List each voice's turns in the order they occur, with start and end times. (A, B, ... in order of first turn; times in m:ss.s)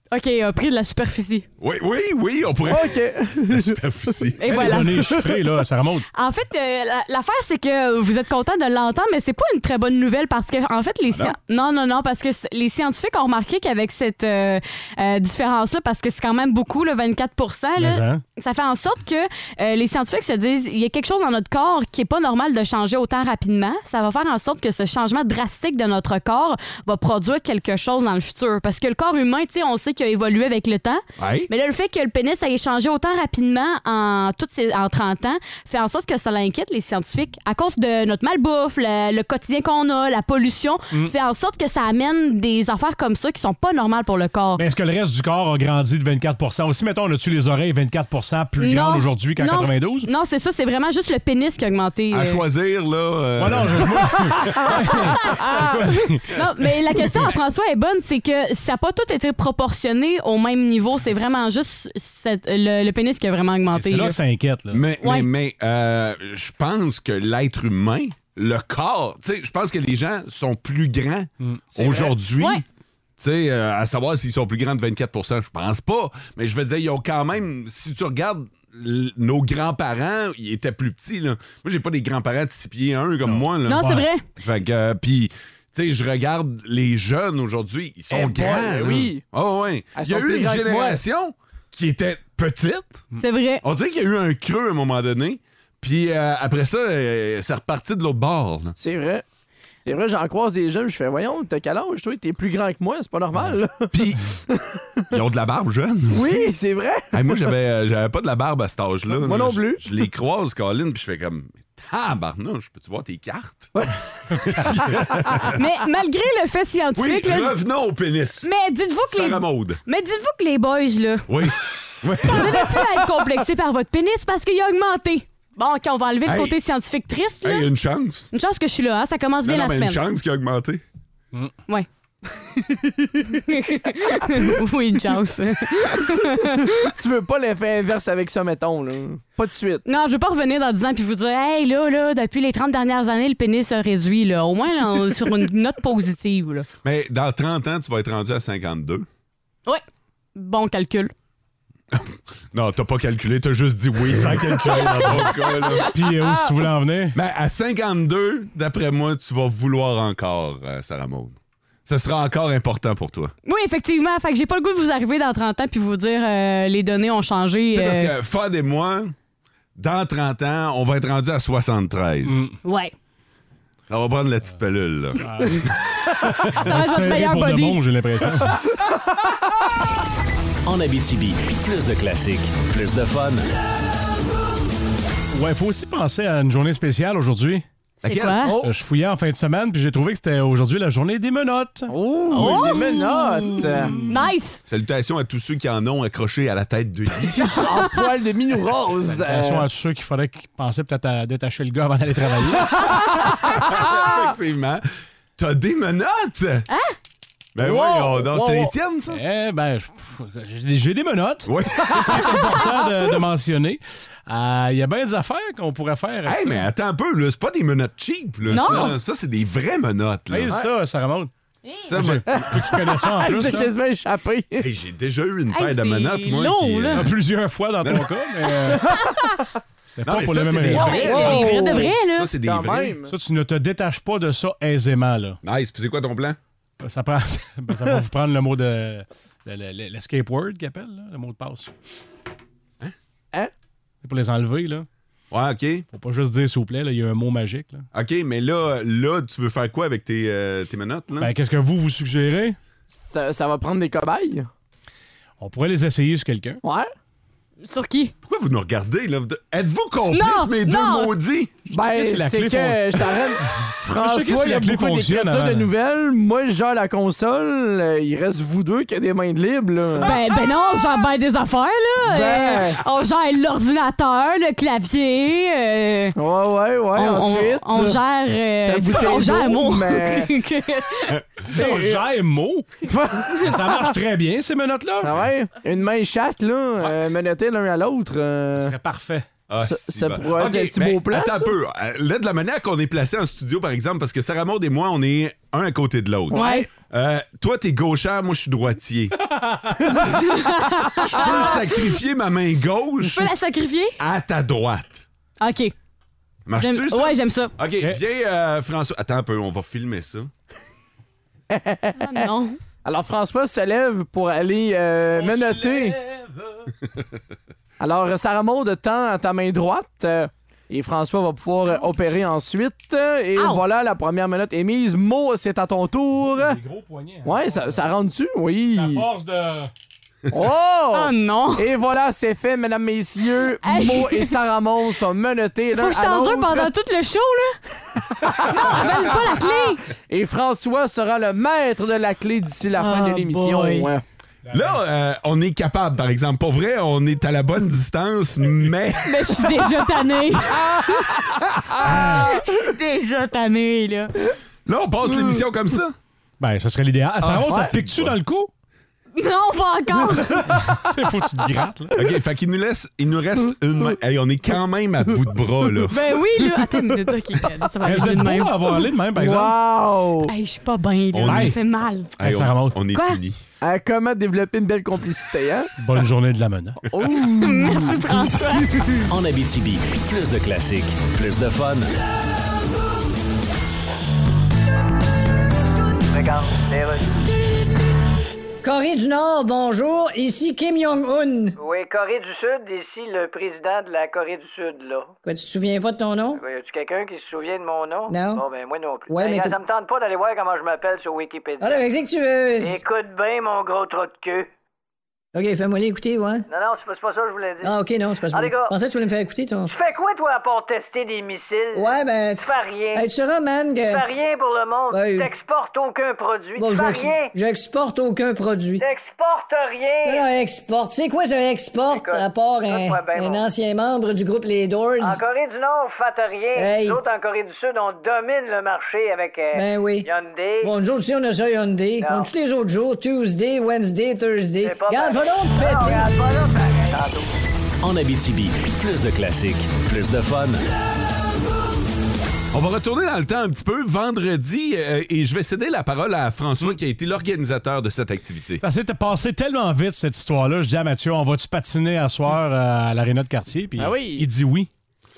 0:00.1-0:01.5 A
0:01.6-0:04.7 B
0:02.6-0:03.8 C
0:04.4-0:04.9 A
0:04.5-0:06.1 D
0:06.2-0:44.6 A
0:17.8-0:18.2 D
0:31.2-0:31.5 B
0:44.6-0:50.1 D
0:48.6-0:52.4 A
0:52.1-0:55.0 B
0:53.4-0:56.3 D
0:56.3-1:04.2 A
1:03.7-1:04.9 D
1:04.7-1:12.6 B
1:05.0-1:05.3 A
1:11.8-1:12.1 C
1:13.2-1:33.1 B
1:23.2-1:24.0 D
1:23.7-1:24.2 A
1:28.1-1:29.2 C
1:30.0-1:31.0 C
1:33.2-1:33.6 A
1:33.6-1:38.8 B
1:38.8-1:39.2 C
1:39.9-1:43.9 C
1:43.9-1:44.3 B
1:44.5-1:45.1 C
1:45.1-1:46.5 B
1:46.1-1:47.5 C
1:47.1-1:53.7 B
1:49.2-1:49.8 C
1:54.4-1:55.6 B
1:55.5-1:57.6 A
1:57.0-1:58.5 B
1:58.4-2:01.3 A
1:59.0-1:59.8 B
2:01.3-2:02.8 B
2:02.2-2:07.7 A
2:06.2-2:06.6 B
2:07.4-2:08.3 B
2:08.3-2:10.0 A
2:09.4-2:10.8 B
2:13.5-2:16.9 A
2:17.0-2:19.8 C
2:19.8-2:26.7 A
2:26.8-2:29.1 B
2:30.4-2:31.1 A
2:31.9-2:35.9 B
2:34.8-2:35.5 A
2:35.9-2:37.2 D
2:37.1-2:43.3 B
2:43.4-2:48.1 A
2:47.7-2:49.1 B
2:49.8-2:52.4 B
2:52.3-2:52.5 D
2:52.6-2:52.9 A
2:53.9-2:56.7 B
2:55.2-2:55.6 D
2:56.6-2:58.6 D
2:56.6-2:57.8 A
3:00.6-3:03.5 E
3:05.3-3:07.6 D
3:08.0-3:08.6 A
3:08.0-3:08.5 B
3:08.4-3:08.7 C
3:08.6-3:12.7 D
3:11.9-3:14.0 C
3:12.3-3:14.6 A
3:13.8-3:14.1 D
3:14.7-3:17.6 B
3:17.4-3:19.7 C
3:19.0-3:22.9 D
3:23.0-3:24.8 B
3:25.4-3:26.7 B
3:26.7-3:27.0 A
3:27.6-3:29.2 B
3:27.6-3:28.7 C
3:29.1-3:36.7 D
3:31.5-3:32.6 B
3:36.3-3:40.6 B
3:38.5-3:39.0 A
3:40.3-3:41.3 D
3:41.8-3:42.7 B
3:41.9-3:43.7 D
3:43.1-3:44.6 C
3:44.6-3:47.2 B
3:45.5-3:47.1 A
3:46.9-3:49.0 D
3:47.8-3:48.1 B
3:49.9-3:51.4 D
3:50.0-3:53.0 B
3:50.7-3:52.3 A
3:50.8-3:53.1 C
3:53.1-3:55.4 D
3:55.4-3:56.4 B
3:56.8-4:01.7 D
4:04.0-4:04.9 D
4:05.3-4:05.9 B
4:05.9-4:07.9 D
4:07.9-4:11.3 B
4:11.2-4:12.6 D
4:12.9-4:14.5 C
4:15.4-4:16.6 D
4:16.6-4:16.9 C
4:17.6-4:18.1 A
4:18.2-4:21.6 B
4:20.1-4:21.1 A
4:21.7-4:25.7 D
4:21.7-4:30.2 C
4:30.0-4:36.2 A
4:32.1-4:32.8 C
4:36.2-4:38.0 C
4:37.0-4:41.2 A
4:38.7-4:40.3 C
4:41.5-4:42.7 D
4:41.6-4:42.0 C
4:42.8-4:43.3 C
4:43.3-4:45.2 D
4:45.0-4:48.7 C
4:48.6-4:49.3 D
4:49.5-4:59.2 B
4:49.7-4:51.5 C
4:56.3-4:56.7 A
4:56.3-4:56.6 C
4:59.4-4:59.7 D
5:00.0-5:01.8 A
5:01.0-5:03.3 B
5:03.1-5:04.0 A
5:04.0-5:05.0 B
5:05.4-5:05.7 A
5:06.5-5:10.3 B
5:06.6-5:07.5 A
5:11.5-5:12.1 C
5:12.0-5:12.6 A
5:12.8-5:16.0 C
5:15.2-5:16.7 D
5:17.8-5:26.6 C
5:26.3-5:27.9 D
5:27.2-5:29.0 C
5:28.7-5:29.7 D
5:30.3-5:36.7 C
5:30.9-5:31.7 A
5:33.6-5:34.4 A
5:35.7-5:37.6 A
5:38.4-5:38.8 C
5:38.4-5:39.8 A
5:40.1-5:44.0 C
5:42.8-5:43.9 A
5:44.5-5:44.8 D
5:44.5-5:49.6 B
5:49.0-5:51.1 A
5:51.8-5:54.1 A
5:51.8-5:52.4 D
5:54.7-5:56.0 B
5:56.4-5:58.5 D
5:57.2-5:58.2 B
5:59.2-6:00.7 A
6:00.5-6:02.0 D
6:01.9-6:06.0 B
6:05.9-6:08.8 A
6:07.8-6:09.6 D
6:09.2-6:10.3 C
6:10.2-6:12.1 A
6:11.1-6:11.6 B
6:11.2-6:11.6 D
6:12.2-6:13.4 B
6:12.2-6:12.8 D
6:12.9-6:13.2 A
6:13.6-6:15.7 C
6:15.8-6:16.8 D
6:16.9-6:18.3 C
6:17.4-6:19.0 A
6:19.1-6:21.9 E
6:26.1-6:27.2 F
6:28.6-6:31.6 G
6:31.6-6:35.1 F
6:35.2-6:36.4 G
6:36.4-6:41.9 F
6:38.1-6:38.4 G
6:39.1-6:39.6 G
6:41.6-6:42.8 G
6:42.6-6:44.5 F
6:45.3-6:46.4 G
6:46.5-6:48.8 F
6:47.6-6:49.7 G
6:49.6-6:53.1 F
6:51.8-6:54.1 G
6:53.8-6:57.4 F
6:54.9-6:55.3 G
6:56.6-6:58.8 G
6:58.8-7:00.3 F
7:00.0-7:05.2 G
7:01.9-7:03.5 F
7:05.0-7:10.8 F
7:06.6-7:07.0 G
7:09.5-7:10.1 G
7:10.6-7:16.1 G
7:12.0-7:12.3 F
7:14.6-7:17.3 F
7:17.8-7:20.7 E
7:22.5-7:28.6 B
7:28.6-7:34.7 D
7:33.8-7:34.3 C